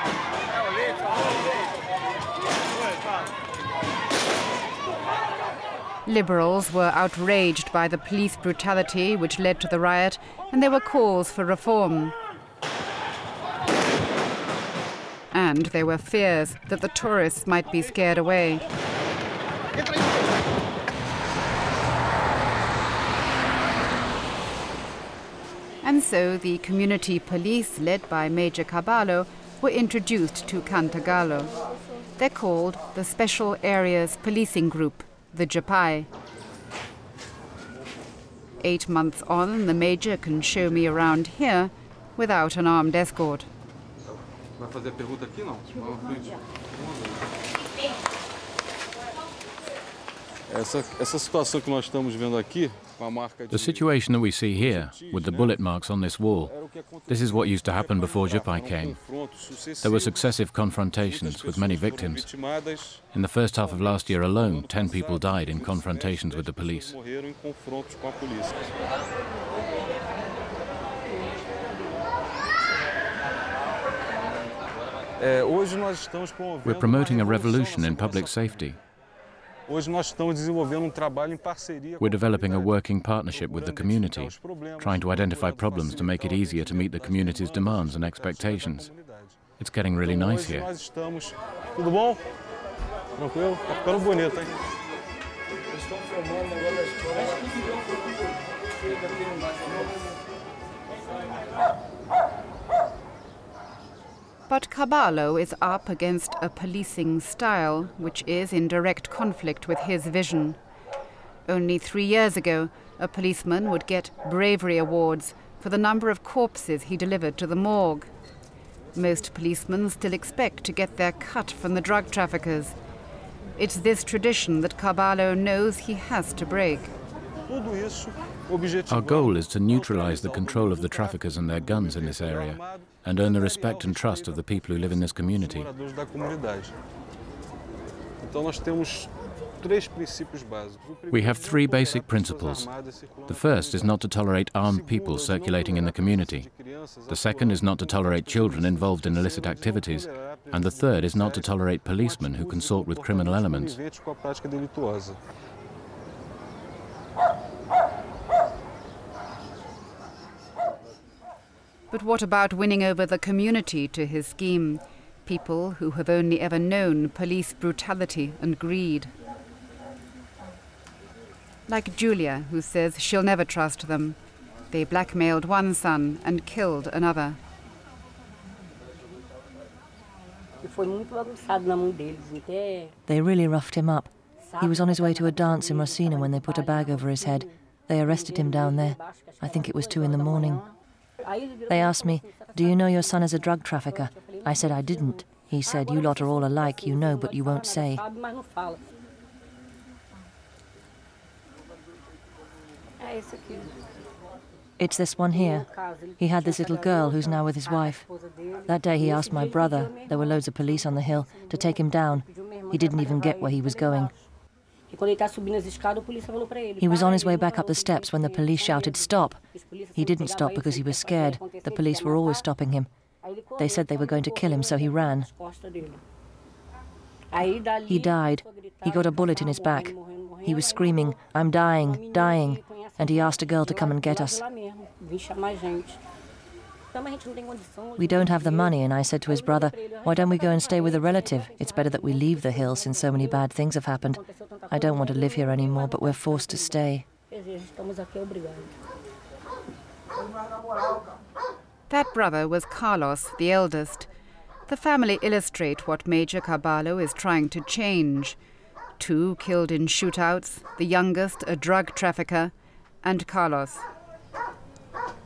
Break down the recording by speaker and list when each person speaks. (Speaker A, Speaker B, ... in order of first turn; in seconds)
Speaker A: 6.1-12.1, 15.3-18.6, 25.8-31.5, 32.2-36.1, 38.6-43.5, 104.5-110.6, 111.5-118.1, 119.0-122.8, 123.6-126.9, 161.9-169.1, 171.7-174.2, 174.7-177.4, 251.9-254.1, 254.7-258.4, 259.0-263.9
Speaker B: 44.6-47.1, 50.5-55.6, 56.4-68.6, 75.2-78.7, 79.7-89.4, 90.0-92.2, 93.2-94.6, 127.5-136.7, 138.2-144.1, 144.6-155.2
Speaker C: 53.5-56.5, 57.1-59.0, 59.8-62.3, 63.1-67.0, 76.6-78.8, 82.0-88.9, 89.6-90.7, 128.9-135.7, 141.1-142.7, 143.3-146.5, 147.1-153.8
Speaker D: 183.1-190.7, 191.7-198.0, 204.8-205.7, 206.2-208.1, 208.7-214.1, 216.8-219.4, 219.9-222.9, 223.6-225.3, 227.9-234.4, 238.0-247.1